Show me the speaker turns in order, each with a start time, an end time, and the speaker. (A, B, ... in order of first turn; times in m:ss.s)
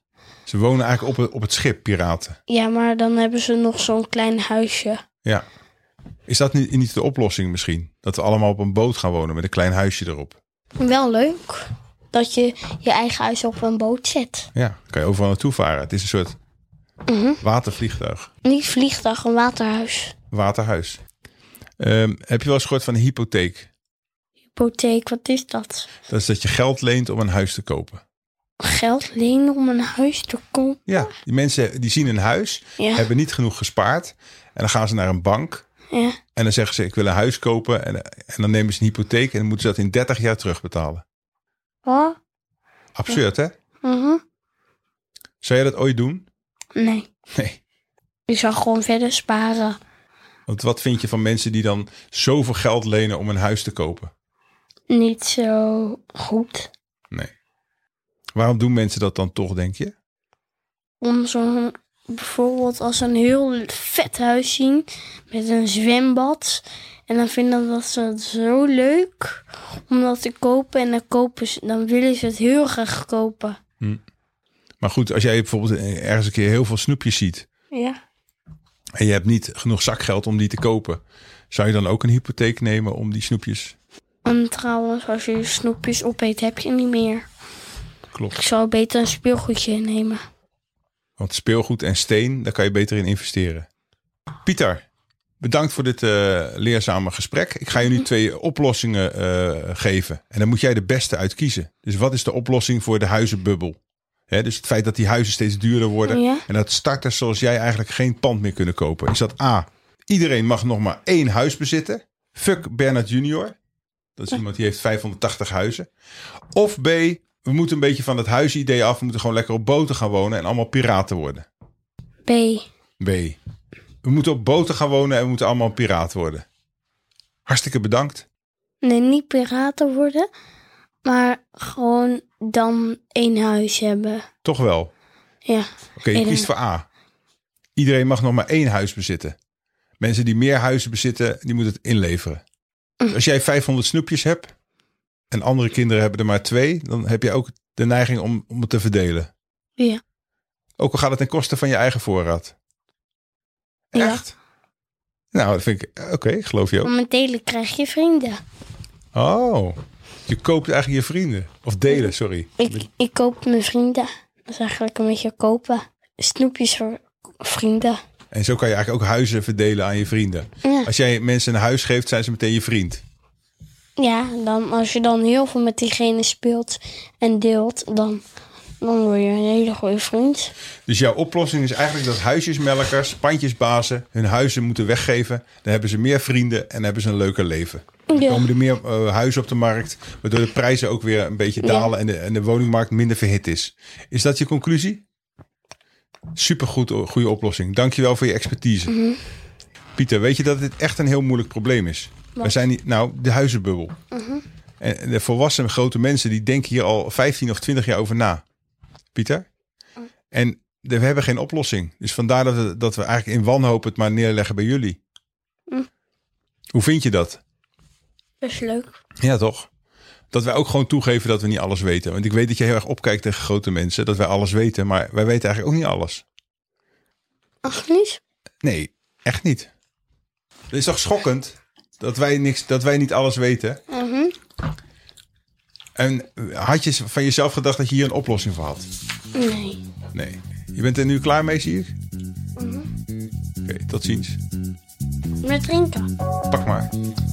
0:00.4-0:02.4 A
0:02.5-0:05.0 B
0:06.3-0:10.4 A
0:10.8-0:14.5 B
0:14.5-0:16.4 A
0:17.1-0:17.4 B
0:17.4-0:18.3 A
0:18.4-0:20.1 B
0:20.3-0:21.0 A
0:21.8-0:23.7 A
0:24.5-0:25.9 B
0:26.1-0:28.0 A
0:28.6-0:31.0 B
0:30.9-0:35.6 A
0:32.8-0:33.0 B
0:35.9-0:36.2 B
0:36.4-0:41.0 A
0:41.8-0:42.2 B
0:43.0-0:43.5 A
0:43.8-0:44.2 B
0:45.4-0:46.3 A
0:46.8-0:47.1 B
0:47.3-0:47.6 A
0:48.3-0:49.8 B
0:50.5-0:54.1 A
0:54.9-0:56.7 B
0:58.3-0:59.9 A
1:01.0-1:13.6 B
1:14.8-1:17.4 A
1:17.7-1:18.0 B
1:19.0-1:23.8 A
1:24.2-1:27.2 B
1:28.3-1:30.2 B
1:31.2-1:33.7 A
1:34.4-1:34.8 A
1:35.4-1:43.8 A
1:44.3-1:53.6 A
1:46.1-1:46.4 B
1:54.2-1:55.9 A
1:56.5-2:01.4 A
2:02.2-2:02.6 B
2:03.0-2:03.4 A
2:04.0-2:06.4 A
2:07.5-2:08.2 A
2:08.8-2:10.3 B
2:11.0-2:14.2 B
2:14.4-2:14.9 A
2:15.4-2:16.5 B
2:16.0-2:16.9 A
2:17.8-2:19.4 A
2:20.0-2:22.4 A
2:23.1-2:24.5 A
2:25.3-2:29.3 A
2:30.8-2:32.5 A
2:33.9-2:34.3 A
2:33.9-2:34.2 B
2:35.3-2:36.9 A
2:36.8-2:38.4 B
2:39.1-2:42.8 A
2:42.6-2:48.0 B
2:48.3-2:53.0 A
2:50.6-2:50.9 B
2:54.0-2:58.2 B
2:58.8-3:00.5 B
3:00.9-3:15.0 A
3:08.1-3:08.4 B
3:11.6-3:11.9 B
3:16.3-3:18.9 A
3:18.9-3:19.2 B
3:20.0-3:23.9 A
3:24.1-3:24.4 B
3:24.8-3:28.4 A
3:29.1-3:29.4 A
3:30.3-3:35.0 A
3:36.7-3:37.4 A
3:38.4-3:38.9 B
3:39.2-3:39.7 A
3:40.3-3:46.2 A
3:47.6-3:48.2 B
3:48.6-3:49.7 A
3:50.7-3:53.8 A
3:53.9-3:54.3 B
3:56.0-3:58.9 A
3:59.3-3:59.8 B
4:00.1-4:01.9 A
4:02.6-4:02.9 B
4:03.6-4:04.4 A
4:05.4-4:06.1 B
4:06.5-4:06.9 A